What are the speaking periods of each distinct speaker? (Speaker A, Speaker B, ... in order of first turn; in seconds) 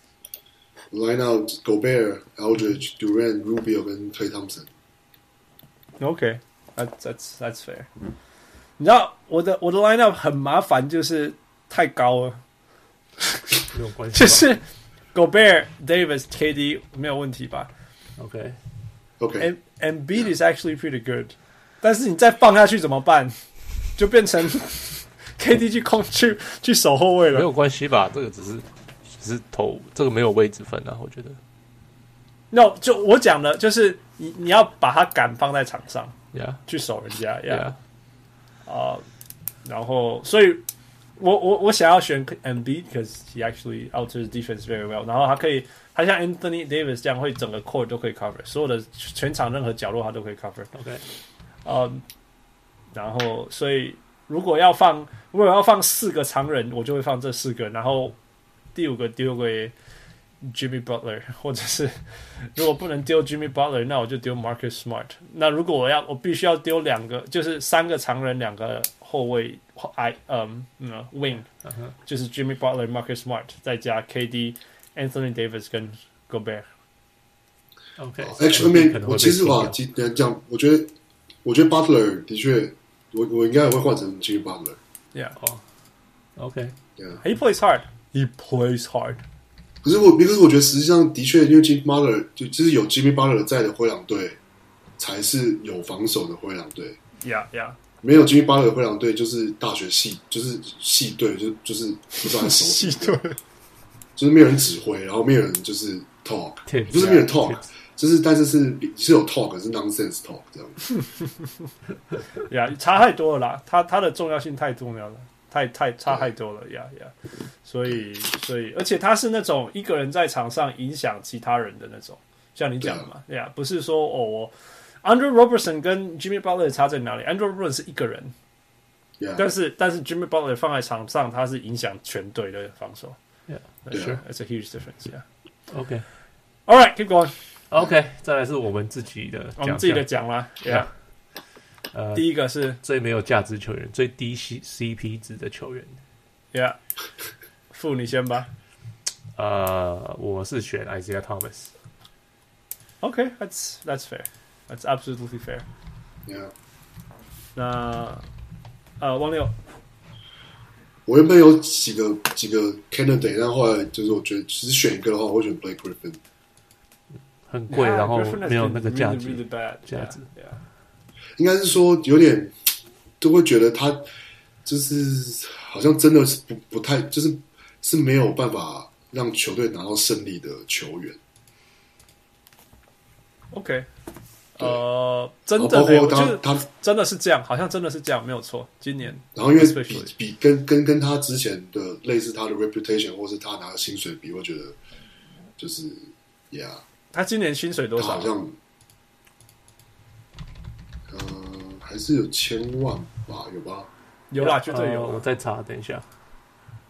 Speaker A: 0.9-4.7, 19.2-19.5, 78.2-80.9, 81.4-84.8, 89.8-94.4, 95.0-97.0, 98.0-103.2, 104.2-110.8, 129.2-129.4, 133.9-134.2, 156.3-156.5, 161.1-166.2, 171.4-172.6, 173.2-174.1, 174.7-181.2, 185.6-186.7, 189.3-194.8, 195.6-196.8, 198.0-198.6, 201.1-203.9
Speaker B: 6.0-7.9, 8.8-12.4, 13.3-13.6, 14.1-14.6, 15.1-17.7, 19.4-23.4, 24.0-27.5, 32.5-36.1, 36.7-37.8, 38.7-39.0, 39.6-40.6, 41.2-50.7, 51.6-52.0, 52.9-58.2, 58.8-59.7, 60.4-71.5, 72.1-76.7, 87.2-89.2, 97.2-97.8, 102.2-103.4, 112.5-117.1, 117.7-128.3, 129.4-133.2, 133.9-135.2, 136.7-137.3, 139.6-140.9, 142.2-142.8, 146.5-146.8, 147.7-148.5, 153.0-155.7, 157.6-158.3, 159.0-159.5, 167.7-170.6, 183.5-183.9, 184.6-190.1, 197.1-198.3, 204.3-205.2
Speaker C: 13.7-14.5, 18.2-18.6, 27.3-28.7, 29.2-31.4, 36.3-36.6, 37.5-37.8, 50.7-51.0, 71.7-71.9, 78.0-79.8, 85.4-85.6, 86.4-86.8, 106.7-107.6, 133.5-133.8, 135.7-136.1, 137.7-140.1, 141.9-146.0, 149.4-151.7, 167.5-170.2, 204.4-206.1